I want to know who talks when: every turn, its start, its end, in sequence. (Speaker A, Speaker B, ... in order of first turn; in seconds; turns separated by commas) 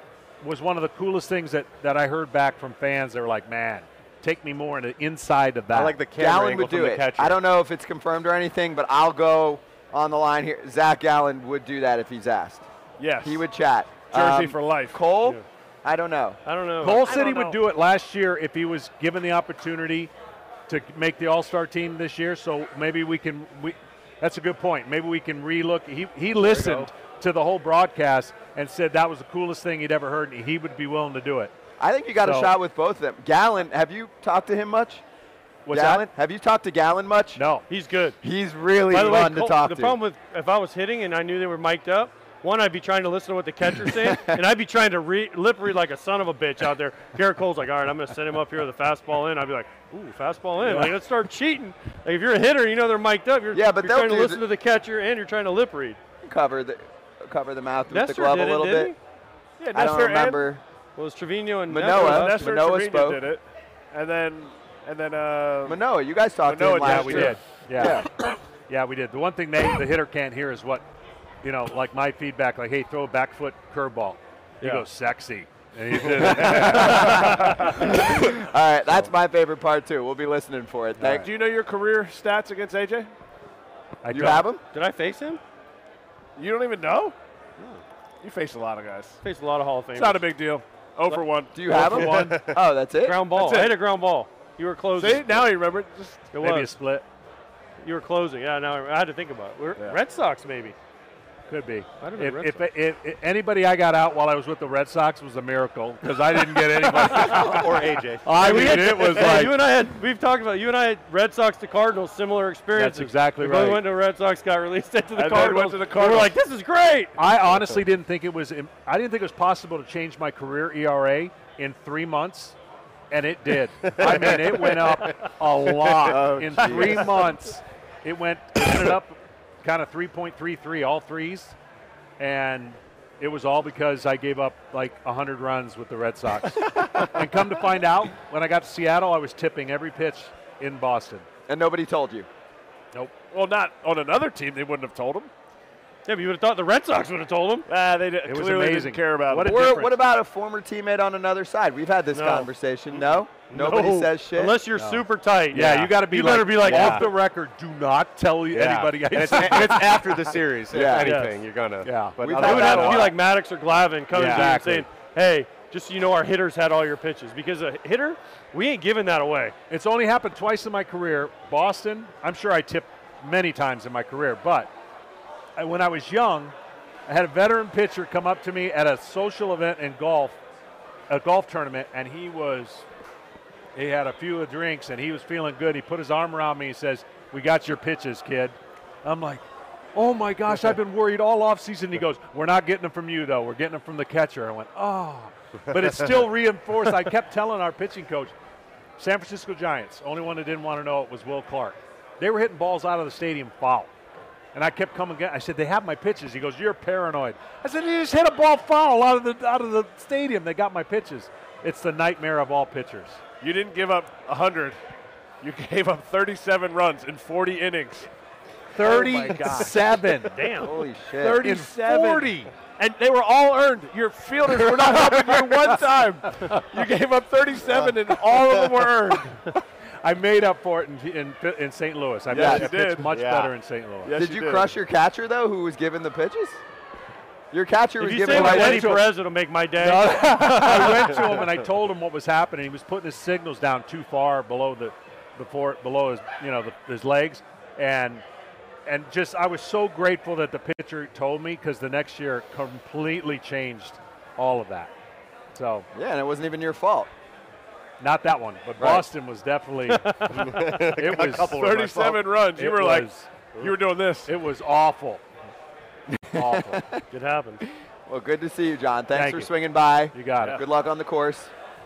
Speaker A: 0.4-6.0, Speaker B: 5.7-7.4, Speaker C: 6.1-12.7, Speaker D: 13.0-13.5, Speaker C: 13.2-16.4, Speaker D: 14.1-15.0, Speaker E: 16.4-17.3, Speaker A: 16.8-20.1, Speaker D: 17.0-17.6, Speaker A: 20.7-31.5, Speaker C: 26.4-26.9, Speaker C: 31.8-35.0, Speaker A: 32.2-32.5, Speaker A: 35.6-36.0, Speaker C: 35.7-37.4, Speaker A: 37.3-37.6, Speaker E: 37.7-38.2, Speaker C: 38.2-40.0, Speaker E: 38.9-56.0, Speaker C: 44.0-44.4, Speaker A: 50.6-51.0, Speaker C: 53.5-54.4, Speaker C: 56.2-58.9, Speaker E: 57.9-59.0, Speaker D: 59.6-60.5, Speaker C: 59.7-60.6, Speaker E: 61.0-62.4, Speaker C: 61.7-63.2, Speaker D: 61.9-65.8, Speaker C: 65.6-68.1, Speaker D: 66.4-67.4, Speaker A: 66.8-70.8, Speaker A: 71.4-78.1, Speaker E: 74.6-74.9, Speaker C: 76.2-81.3, Speaker D: 76.4-77.6, Speaker D: 81.0-83.1, Speaker A: 84.0-84.5, Speaker C: 84.1-84.6, Speaker E: 84.7-85.4, Speaker D: 86.4-87.1, Speaker E: 87.6-87.8, Speaker D: 88.2-89.2, Speaker E: 89.2-90.2, Speaker D: 90.0-92.3, Speaker C: 91.5-93.3, Speaker A: 91.7-92.4, Speaker B: 91.7-92.5, Speaker E: 93.0-95.5, Speaker D: 93.3-93.8, Speaker D: 95.0-96.3, Speaker E: 96.3-96.7, Speaker A: 96.4-97.0, Speaker E: 97.8-100.8, Speaker A: 101.5-109.5, Speaker E: 102.0-102.6, Speaker B: 106.9-108.9, Speaker E: 107.2-107.5, Speaker E: 108.4-117.2, Speaker D: 108.4-109.4, Speaker A: 112.7-113.8, Speaker D: 115.2-116.3, Speaker A: 117.2-122.5, Speaker A: 123.1-131.6, Speaker B: 123.8-124.9, Speaker C: 125.9-127.3, Speaker A: 132.2-141.3, Speaker C: 141.5-142.3, Speaker D: 143.3-145.3, Speaker E: 146.1-147.7, Speaker D: 147.7-149.7, Speaker A: 148.2-150.0, Speaker C: 149.4-154.6, Speaker E: 152.1-157.1, Speaker A: 154.7-160.0, Speaker B: 156.6-157.1, Speaker B: 158.5-162.9, Speaker C: 160.7-161.2, Speaker E: 161.0-161.4, Speaker A: 161.8-163.2, Speaker C: 162.2-163.1, Speaker E: 162.4-169.6, Speaker A: 164.1-164.9, Speaker A: 169.7-174.7, Speaker A: 175.6-176.5, Speaker A: 177.1-180.4, Speaker A: 181.1-182.9, Speaker A: 183.7-198.3, Speaker A: 199.0-203.9, Speaker A: 204.5-213.2, Speaker D: 213.4-214.8, Speaker D: 215.4-218.1, Speaker A: 218.7-220.4, Speaker D: 218.8-219.8, Speaker E: 220.3-220.8, Speaker C: 220.6-221.5, Speaker D: 221.2-229.5, Speaker A: 221.4-222.5, Speaker A: 224.5-225.8, Speaker A: 230.0-234.2, Speaker D: 232.3-233.1, Speaker C: 232.3-232.7, Speaker B: 233.1-233.5, Speaker D: 234.1-234.7, Speaker C: 234.2-236.6, Speaker C: 237.5-238.9, Speaker E: 238.0-241.3, Speaker A: 238.2-239.1, Speaker A: 239.8-248.2, Speaker A: 248.9-254.9, Speaker A: 255.6-255.9, Speaker C: 255.9-257.1, Speaker A: 258.0-263.5, Speaker C: 258.8-259.1, Speaker E: 259.9-261.0, Speaker B: 260.5-261.3, Speaker D: 261.1-264.3, Speaker A: 264.3-265.2, Speaker A: 266.1-266.8, Speaker C: 266.3-267.0, Speaker E: 267.1-267.6, Speaker C: 268.1-271.5, Speaker A: 269.1-269.5, Speaker A: 270.1-270.6